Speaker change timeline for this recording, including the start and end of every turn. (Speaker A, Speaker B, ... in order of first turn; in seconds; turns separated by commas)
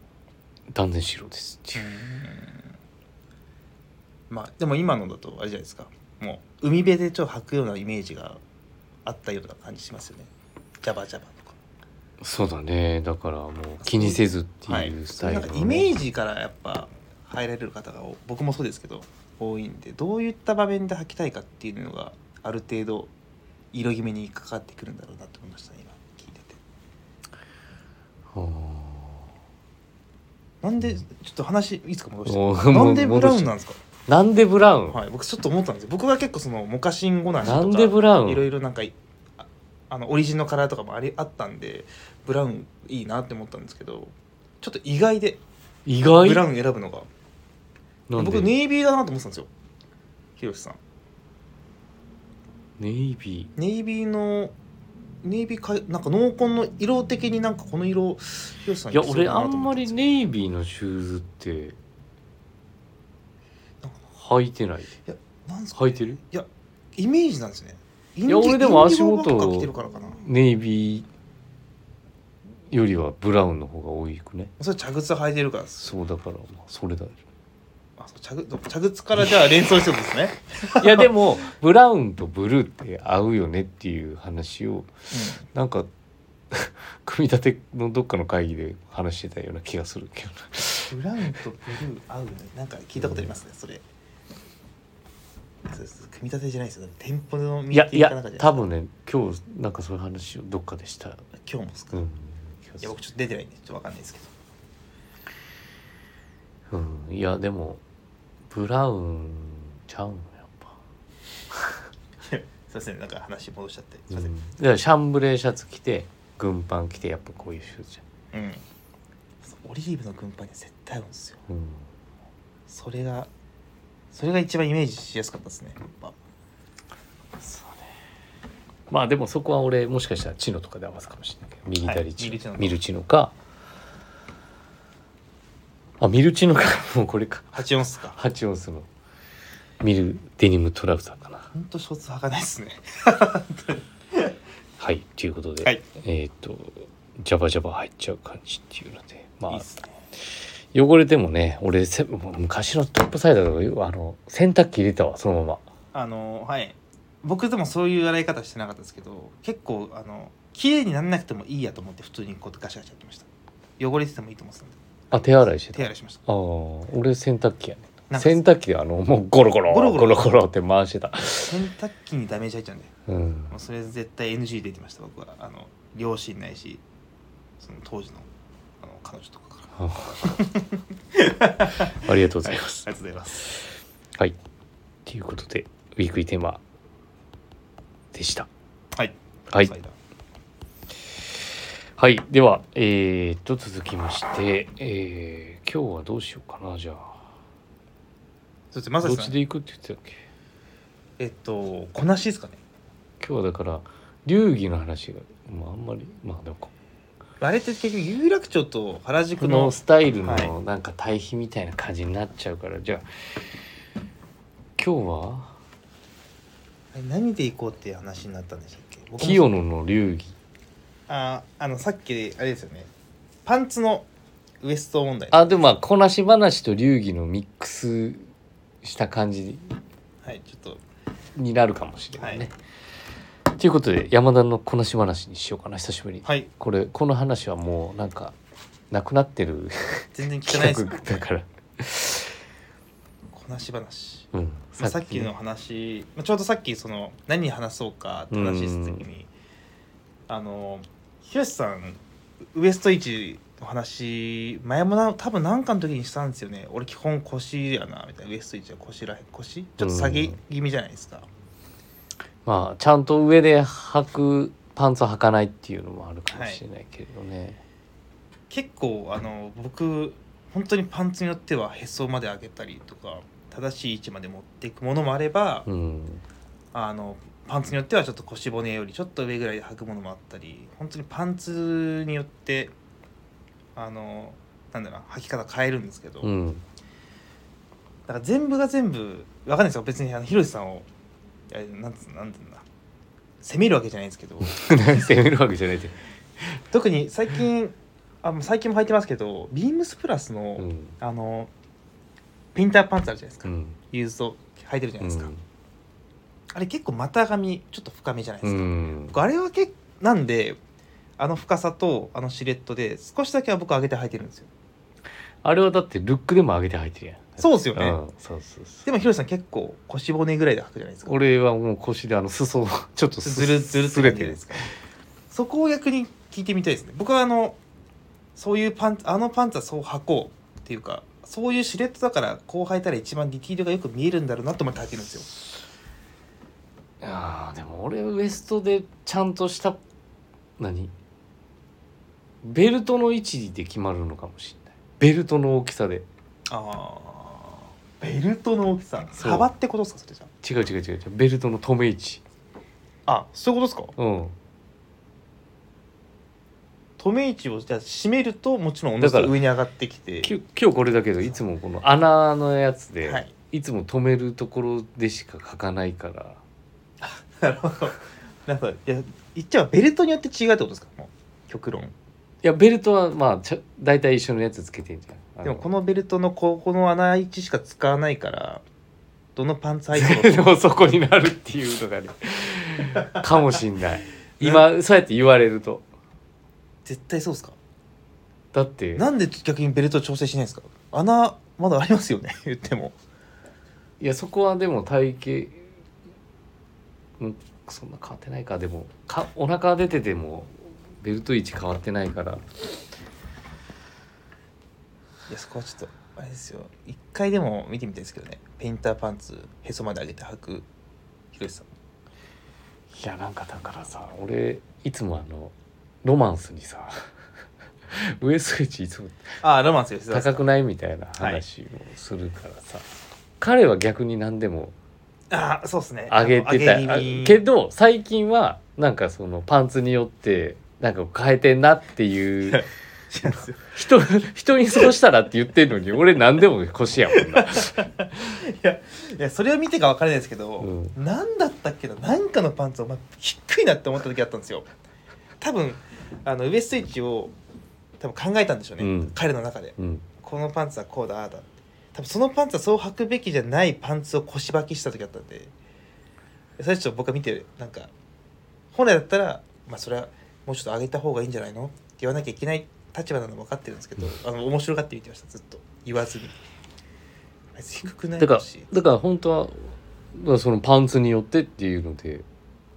Speaker A: 0.7-1.8, Speaker B: 1.7-2.6, Speaker B: 4.3-8.4, Speaker B: 9.1-10.3, Speaker B: 10.8-11.6, Speaker A: 12.2-15.9, Speaker B: 13.8-23.1, Speaker B: 23.7-26.6, Speaker A: 28.3-29.2, Speaker B: 30.6-33.8, Speaker A: 32.2-33.5, Speaker A: 34.1-35.0, Speaker B: 34.9-45.4, Speaker A: 37.4-38.5, Speaker A: 45.9-46.4, Speaker B: 46.1-47.1, Speaker A: 48.1-48.5, Speaker B: 48.2-49.5, Speaker B: 50.4-50.8, Speaker A: 52.8-53.5, Speaker B: 53.5-54.5, Speaker B: 55.2-60.1, Speaker A: 58.9-61.8, Speaker A: 64.2-64.9, Speaker B: 65.0-70.2, Speaker A: 65.8-66.2, Speaker A: 68.3-71.1, Speaker A: 72.7-74.5, Speaker B: 74.6-75.9, Speaker A: 75.8-77.2, Speaker B: 78.0-81.1, Speaker A: 80.8-84.9, Speaker B: 85.1-85.5, Speaker A: 85.4-85.9, Speaker A: 86.5-90.9, Speaker B: 90.9-93.8, Speaker A: 93.0-93.3, Speaker B: 95.7-98.7, Speaker A: 97.7-101.2, Speaker B: 101.4-102.0, Speaker A: 101.9-102.9, Speaker B: 102.8-104.3, Speaker A: 106.7-107.8, Speaker A: 108.5-110.7, Speaker A: 111.5-111.8, Speaker B: 112.3-114.3, Speaker A: 114.1-118.0, Speaker B: 118.3-118.6, Speaker B: 119.4-121.4, Speaker A: 121.5-121.9, Speaker B: 122.7-123.3, Speaker B: 124.1-126.1, Speaker A: 127.4-127.9, Speaker A: 128.9-133.3, Speaker B: 131.8-132.8, Speaker A: 136.0-137.6, Speaker B: 137.5-138.2, Speaker A: 138.1-138.9, Speaker A: 139.8-141.5, Speaker B: 141.5-144.3, Speaker A: 144.8-149.6, Speaker B: 149.5-149.9, Speaker A: 150.7-155.6, Speaker B: 155.9-163.3, Speaker B: 163.8-166.2, Speaker A: 165.1-171.6, Speaker B: 168.1-168.4, Speaker B: 169.7-170.3, Speaker B: 171.4-172.9, Speaker A: 173.1-173.5, Speaker B: 173.5-176.8, Speaker B: 177.6-178.2, Speaker B: 178.8-183.6, Speaker A: 179.8-180.4, Speaker A: 181.8-182.9, Speaker A: 185.1-186.6, Speaker A: 188.1-188.5, Speaker B: 188.9-189.9, Speaker A: 192.0-197.2, Speaker B: 198.7-199.4, Speaker A: 199.0-200.2, Speaker B: 201.2-202.6, Speaker A: 203.2-206.7, Speaker B: 207.4-210.5, Speaker A: 209.4-213.4, Speaker A: 214.8-215.6, Speaker B: 216.9-219.5, Speaker A: 219.2-220.3, Speaker B: 221.1-222.9, Speaker B: 223.4-224.1, Speaker B: 224.6-225.7, Speaker A: 225.3-228.3, Speaker A: 228.8-229.7, Speaker B: 230.2-230.8, Speaker A: 231.3-232.5, Speaker B: 232.2-232.5, Speaker A: 233.5-238.3, Speaker A: 238.9-242.4, Speaker B: 240.1-241.2, Speaker B: 243.3-249.3, Speaker A: 244.3-245.3, Speaker A: 248.3-249.0, Speaker B: 250.3-252.0, Speaker B: 252.5-261.3, Speaker A: 259.8-260.4, Speaker A: 262.4-267.6, Speaker B: 266.3-266.6, Speaker B: 268.5-275.7, Speaker A: 275.6-276.2, Speaker B: 276.7-282.7, Speaker B: 283.8-286.3, Speaker A: 286.2-286.6, Speaker B: 288.1-290.9, Speaker B: 291.5-292.6, Speaker B: 293.4-295.1, Speaker A: 294.4-295.9, Speaker B: 296.7-301.5, Speaker A: 300.6-300.9, Speaker B: 302.5-305.3, Speaker A: 303.4-303.8, Speaker A: 305.0-305.4, Speaker B: 306.5-310.6, Speaker A: 308.4-309.2, Speaker B: 311.2-314.5, Speaker A: 315.4-318.8, Speaker B: 317.4-318.0, Speaker B: 318.8-321.2, Speaker A: 321.1-324.7, Speaker B: 323.2-324.7, Speaker B: 325.3-327.6, Speaker B: 328.4-335.3, Speaker A: 337.0-339.8, Speaker A: 340.6-340.9, Speaker A: 342.4-346.1, Speaker B: 346.5-350.3, Speaker A: 349.2-349.5, Speaker A: 350.4-352.2, Speaker B: 353.1-353.9, Speaker A: 354.0-354.3, Speaker B: 357.0-360.3, Speaker A: 359.0-359.3, Speaker A: 360.2-366.4, Speaker B: 363.0-363.3, Speaker B: 367.0-371.9, Speaker A: 372.4-375.6, Speaker B: 375.4-378.6, Speaker B: 379.4-380.4, Speaker A: 379.9-385.8, Speaker B: 386.8-387.6, Speaker A: 388.5-389.1, Speaker B: 388.9-392.9, Speaker A: 394.0-395.7, Speaker A: 397.2-402.4, Speaker B: 405.3-410.7, Speaker B: 411.3-411.7, Speaker A: 412.9-417.1, Speaker A: 417.9-419.4, Speaker B: 419.4-420.4, Speaker A: 420.1-422.9, Speaker B: 421.2-421.4, Speaker A: 423.4-424.7, Speaker B: 425.3-427.4, Speaker A: 426.1-432.6, Speaker B: 432.5-433.7, Speaker A: 433.2-437.9, Speaker B: 437.1-444.7, Speaker A: 440.6-440.9, Speaker B: 445.4-447.3, Speaker B: 448.0-455.5, Speaker A: 448.8-449.1, Speaker A: 449.8-450.0, Speaker B: 456.6-457.9, Speaker B: 458.7-466.4, Speaker B: 467.6-468.7, Speaker A: 468.2-472.2